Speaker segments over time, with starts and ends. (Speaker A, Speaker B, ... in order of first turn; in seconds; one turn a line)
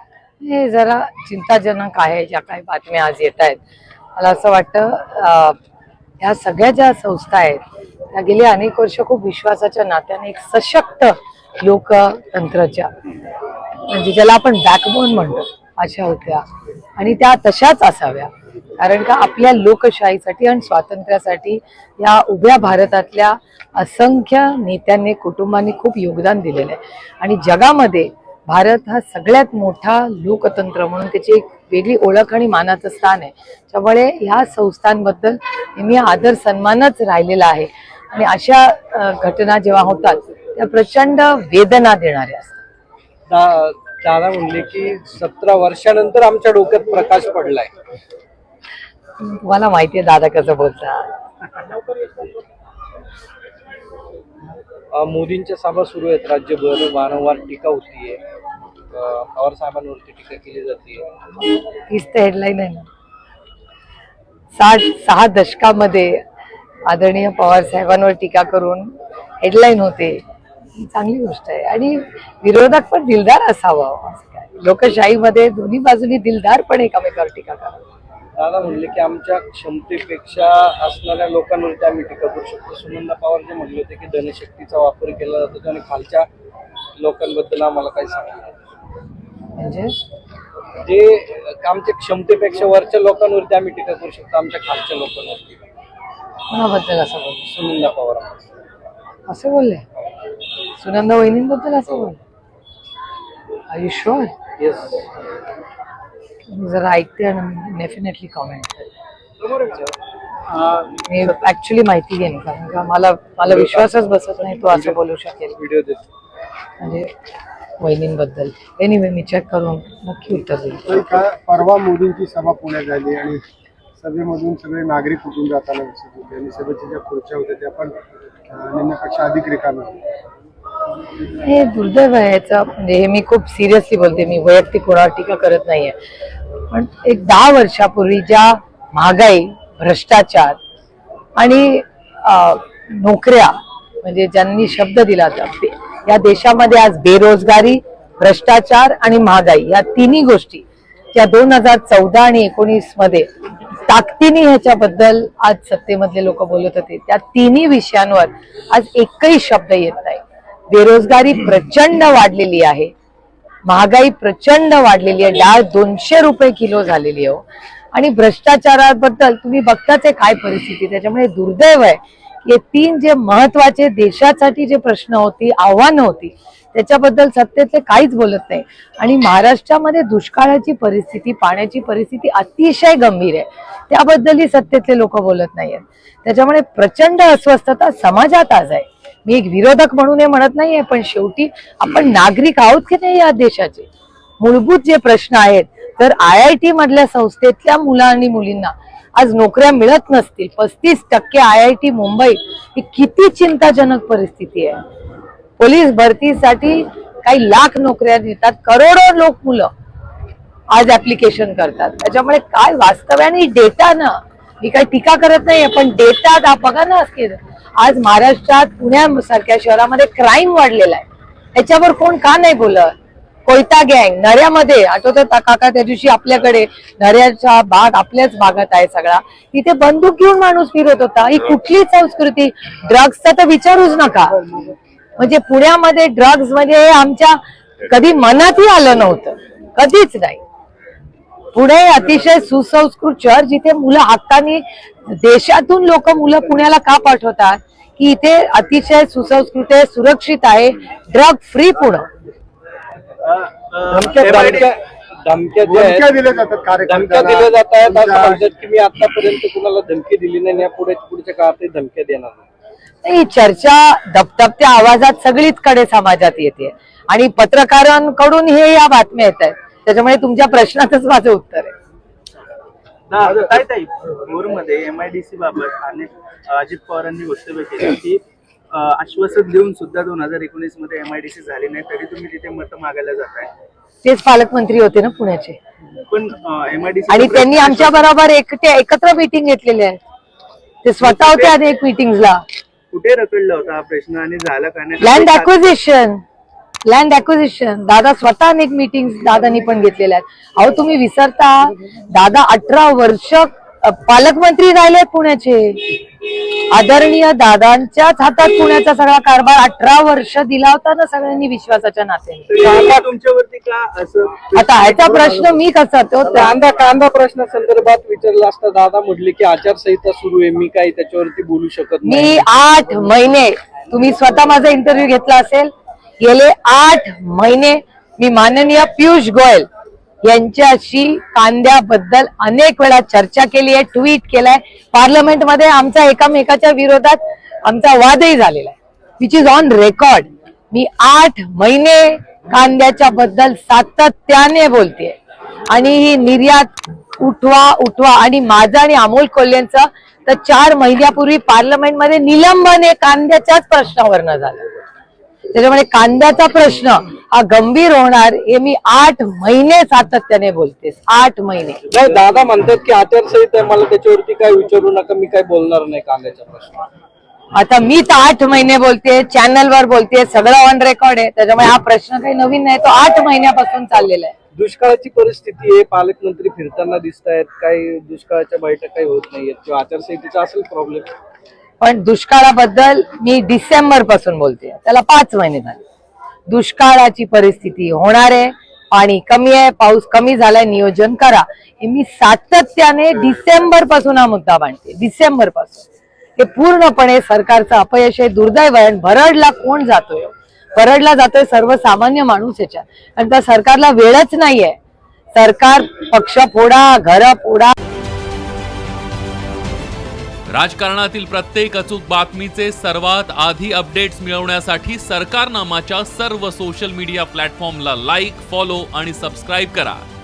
Speaker A: 0.4-3.6
Speaker A: 4.2-5.6
Speaker A: 6.2-7.6
Speaker A: 8.1-12.9
Speaker A: 13.9-16.4
Speaker A: 17.0-42.6
Speaker B: 43.3-47.7
Speaker A: 49.2-51.1
Speaker B: 54.9-58.2
Speaker B: 58.9-61.1
Speaker A: 61.7-62.9
Speaker A: 64.5-66.2
Speaker A: 66.9-70.2
Speaker A: 70.8-77.8
Speaker B: 78.3-86.3
Speaker B: 87.0-88.5
Speaker A: 89.6-90.0
Speaker B: 90.8-95.6
Speaker A: 96.5-97.5
Speaker B: 97.4-98.4
Speaker A: 99.3-99.8
Speaker A: 100.8-102.2
Speaker A: 103.7-104.3
Speaker B: 104.6-105.0
Speaker A: 106.5-108.9
Speaker B: 109.4-109.9
Speaker A: 111.1-115.6
Speaker B: 113.5-115.0
Speaker B: 115.5-116.0
Speaker A: 116.8-117.1
Speaker A: 117.8-121.0
Speaker C: 120.9-123.4
Speaker C: 124.0-127.9
Speaker C: 128.5-130.0
Speaker A: 131.4-136.0
Speaker A: 136.7-140.6
Speaker A: 141.4-153.3
Speaker A: 153.9-162.9
Speaker A: 163.7-193.9
Speaker A: 194.4-204.8
Speaker A: 205.6-209.7
Speaker A: 210.7-222.9
Speaker A: 223.5-234.4
Speaker A: 235.2-240.4
Speaker A: 241.5-252.1
Speaker D: 253.2-254.7
Speaker B: 253.9-256.1
Speaker C: 255.6-258.4
Speaker B: 256.9-262.4
Speaker A: 263.0-271.7
Speaker D: 273.1-283.5
Speaker A: 284.0-285.6
Speaker D: 286.1-288.1
Speaker A: 287.1-290.0
Speaker A: 290.8-292.4
Speaker D: 291.0-291.6
Speaker D: 292.9-295.5
Speaker A: 295.0-296.2
Speaker A: 296.9-312.6
Speaker D: 312.5-315.5
Speaker B: 312.7-313.0
Speaker A: 314.6-316.6
Speaker B: 316.2-322.4
Speaker A: 322.0-329.7
Speaker A: 330.2-345.2
Speaker A: 345.7-354.7
Speaker A: 355.5-361.9
Speaker B: 361.9-366.8
Speaker A: 367.6-374.4
Speaker B: 374.6-381.1
Speaker A: 381.8-385.8
Speaker A: 386.5-395.9
Speaker A: 396.4-404.8
Speaker A: 405.4-407.7
Speaker E: 410.5-420.1